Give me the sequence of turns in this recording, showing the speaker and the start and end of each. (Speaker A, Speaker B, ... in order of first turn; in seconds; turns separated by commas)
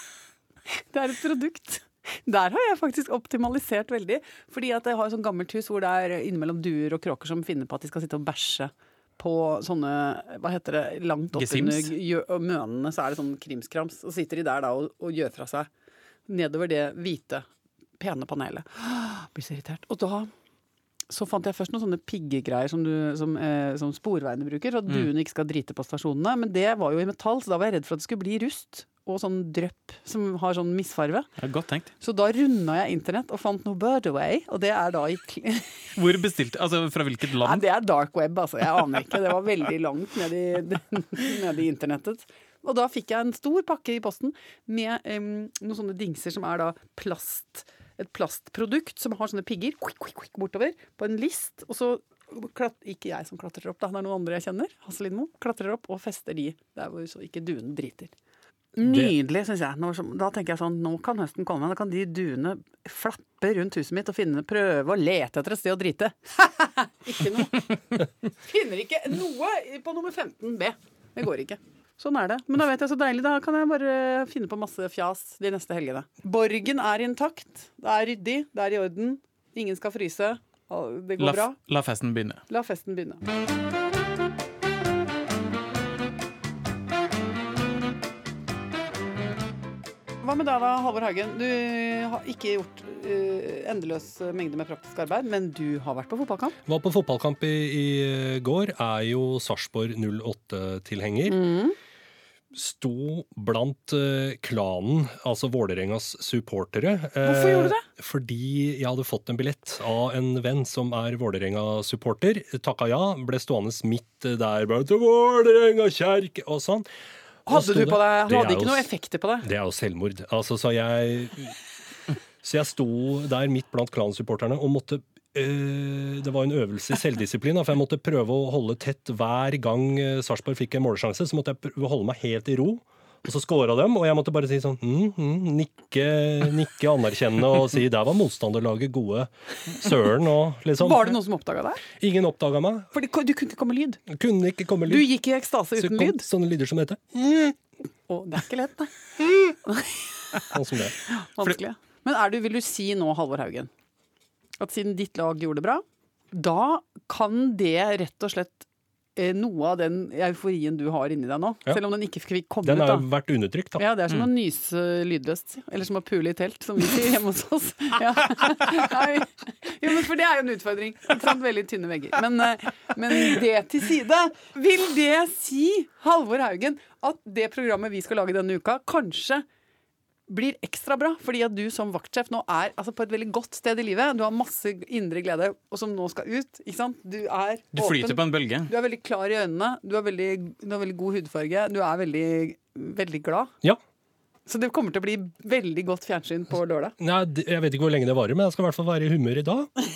Speaker A: 0.7-15.7, Speaker B: 11.3-11.9, Speaker A: 16.3-17.4, Speaker A: 18.0-20.3, Speaker A: 21.1-31.3, Speaker B: 31.4-31.9, Speaker A: 32.0-35.8, Speaker B: 36.0-37.6, Speaker A: 37.4-58.1, Speaker A: 58.8-67.8, Speaker C: 58.8-59.1, Speaker A: 68.3-81.6, Speaker B: 81.2-82.4, Speaker A: 82.5-83.2, Speaker A: 90.2-96.6, Speaker C: 96.7-101.4, Speaker A: 101.3-101.8, Speaker C: 102.5-116.8, Speaker A: 107.2-107.8, Speaker C: 117.5-118.8, Speaker A: 117.5-119.5, Speaker C: 119.4-121.5, Speaker C: 122.4-141.2, Speaker A: 140.8-141.8, Speaker C: 141.9-142.9, Speaker A: 142.9-144.0, Speaker C: 144.1-145.1, Speaker A: 144.9-146.2, Speaker C: 145.8-147.0, Speaker A: 147.2-147.5, Speaker A: 148.1-150.3, Speaker C: 150.5-150.9, Speaker A: 151.1-153.7, Speaker A: 154.6-158.6, Speaker A: 159.2-163.1, Speaker C: 162.6-163.8, Speaker A: 163.8-179.4, Speaker A: 180.3-193.5, Speaker B: 187.8-188.7, Speaker A: 194.5-196.9, Speaker C: 197.0-199.7